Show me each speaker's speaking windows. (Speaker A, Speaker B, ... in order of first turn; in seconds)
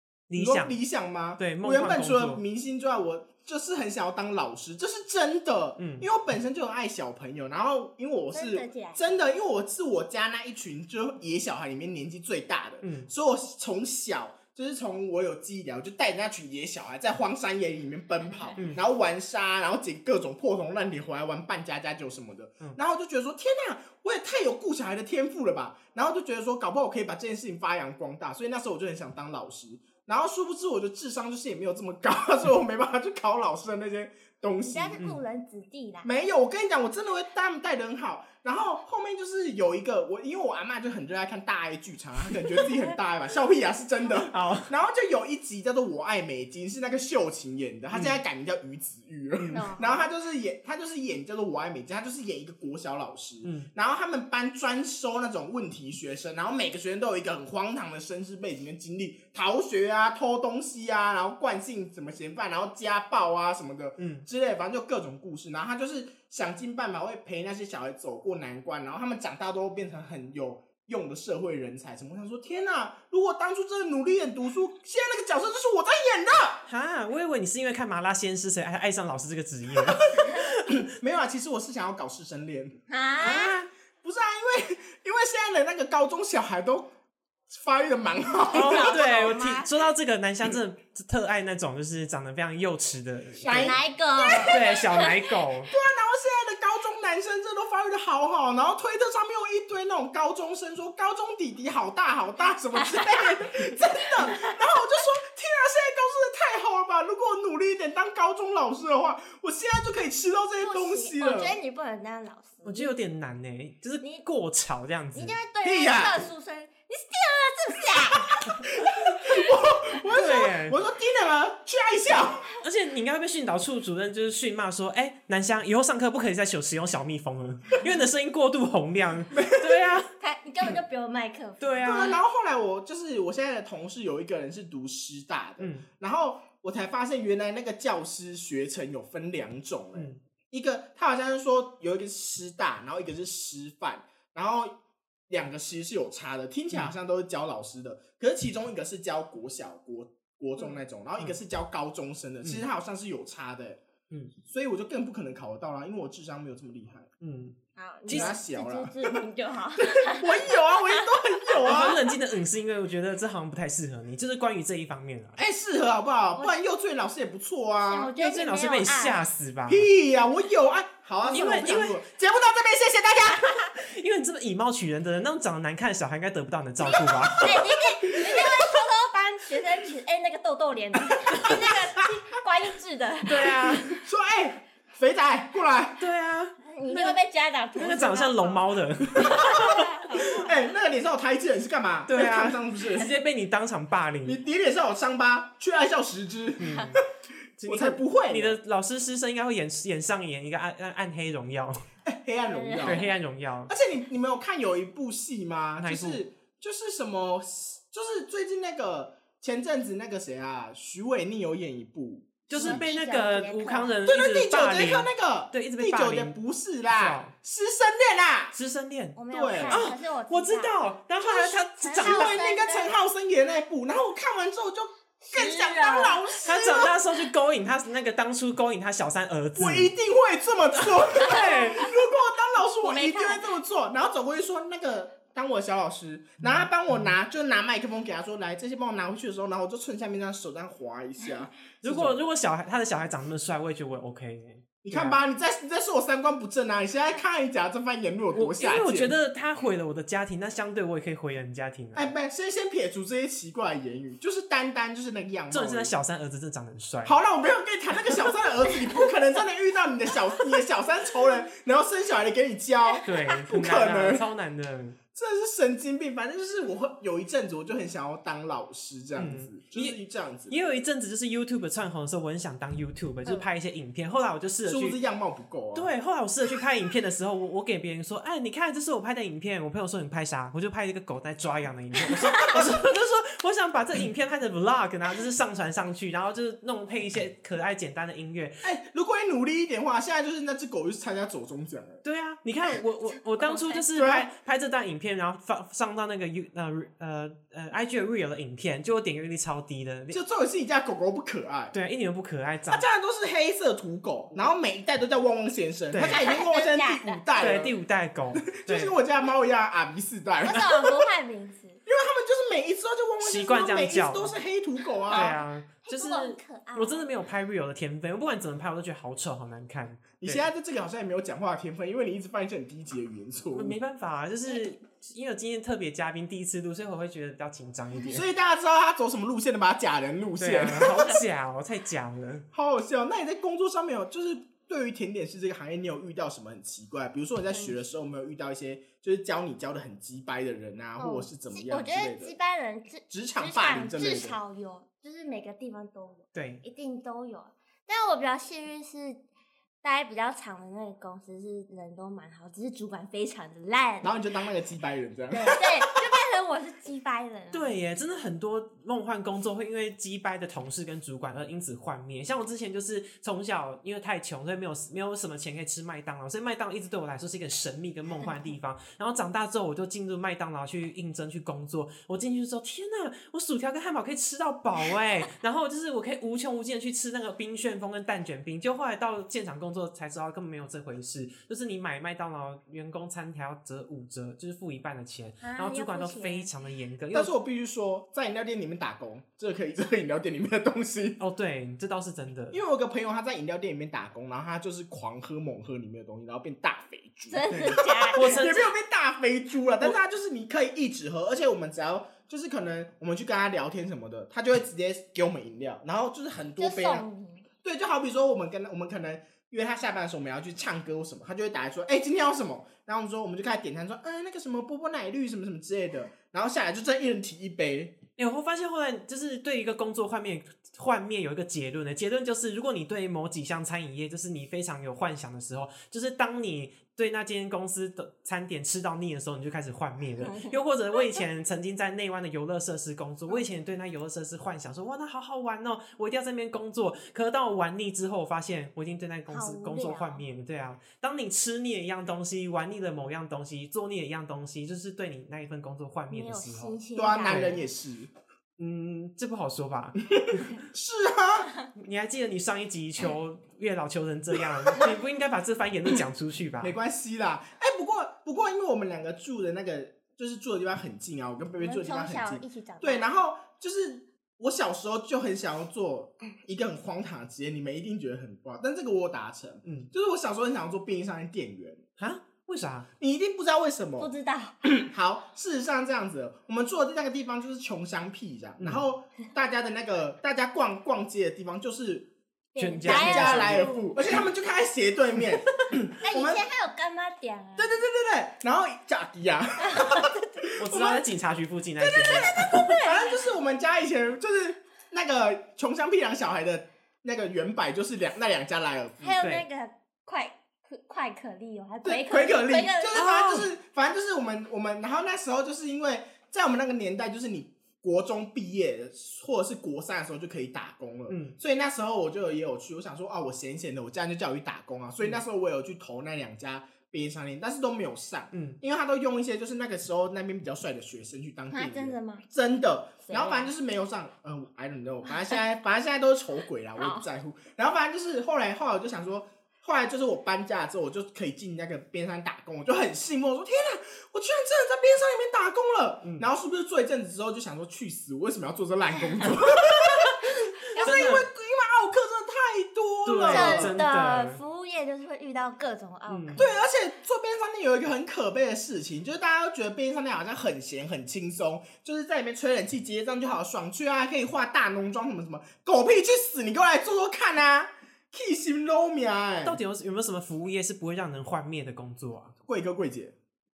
Speaker A: 0.3-0.8, 1.4-2.4, 5.8-6.1, 12.8-13.1, 44.3-44.7, 47.9-48.2, 49.4-49.7, 53.4-53.7, 64.0-64.2, 76.7-80.8, 83.2-83.7, 88.5-93.8, 94.3-95.7, 112.6-115.4, 120.1-120.8, 122.6-130.1, 131.6-132.2, 135.6-135.9, 139.9-140.2, 157.2-157.6, 158.1-158.3, 161.6-165.4, 168.2-169.9, 171.3-172.0, 173.8-177.6, 183.2-184.0, 186.0-187.2, 187.8-189.8, 192.1-194.4, 196.6-197.0, 197.6-201.8, 202.8-203.7, 205.8-206.2, 212.5-217.3, 218.5-219.2, 219.7-222.4, 226.4-229.9, 231.1-231.9, 236.4-237.1, 241.8-245.2, 248.3-252.1, 255.5-257.1, 263.1-265.0, 269.1-270.0, 270.5-275.0, 275.7-288.6, 292.0-300.2, 301.7-302.9, 305.9-306.2, 307.4-308.9, 313.2-314.3, 315.1-320.4, 323.5-328.2, 330.4-332.4, 346.3-346.6, 357.5-387.3, 391.2-392.6, 398.1-398.7, 418.2-447.6, 448.6-450.5, 451.7-456.7, 469.6-469.9, 472.0-472.9, 478.6-478.8, 482.6-483.7, 490.6-492.7, 499.2-499.4, 502.9-503.5, 511.1-511.4, 518.3-518.6, 540.8-541.3, 543.0-544.4, 546.1-546.4, 559.4-562.3
Speaker B: 0.3-35.0, 36.0-76.6, 79.7-82.8, 84.0-86.9, 87.5-89.0, 93.4-94.7, 95.7-111.6, 115.6-116.2, 118.3-122.5, 129.3-129.8, 131.8-144.8, 145.3-153.8, 154.4-157.1, 158.1-159.2, 159.8-162.0, 165.4-168.1, 169.7-173.7, 176.8-178.8, 181.3-182.0, 183.8-186.0, 189.2-193.1, 194.2-197.0, 197.6-198.6, 202.0-203.1, 203.7-212.9, 214.1-218.6, 219.3-219.9, 221.2-226.9, 229.6-242.2, 244.8-249.1, 251.9-255.9, 257.1-264.2, 265.1-270.6, 274.6-275.9, 282.4-282.8, 288.6-292.0, 293.9-294.3, 300.1-301.7, 302.7-307.7, 308.4-311.1, 311.9-315.4, 320.2-323.8, 328.1-331.2, 332.5-342.3, 343.1-344.4, 354.0-356.1, 387.1-391.2, 392.5-407.1, 407.6-418.0, 446.9-448.1, 450.1-451.5, 456.6-471.9, 473.0-474.1, 474.6-482.1, 482.8-486.4, 487.6-491.0, 491.8-499.2, 501.8-543.8, 546.4-559.6, 562.4-563.1
Speaker C: 8.3-9.2, 18.2-18.6, 34.6-36.1, 49.5-50.1, 82.9-83.5, 88.5-89.8, 93.5-95.2, 102.8-103.3, 104.3-104.5, 110.6-112.9, 115.1-118.7, 119.3-119.5, 130.2-132.1, 157.8-161.9, 167.8-169.2, 177.3-183.6, 186.7-190.5, 202.5-203.1, 212.5-213.9, 219.2-220.8, 221.8-223.0, 225.2-226.4, 231.2-231.9, 232.8-233.5, 293.4-293.9, 306.0-307.6, 310.4-311.8, 315.0-317.1, 341.0-349.2, 349.8-354.1, 355.3-357.7, 385.4-386.5, 397.3-398.6, 406.6-407.4, 430.2-431.2, 439.3-440.2, 446.1-447.7, 461.6-463.1, 474.0-474.6, 482.6-484.2, 486.0-487.8, 489.6-490.4, 491.9-493.3, 499.0-503.1, 521.5-522.3, 523.1-523.5, 525.1-525.4, 526.8-527.1, 543.3-546.6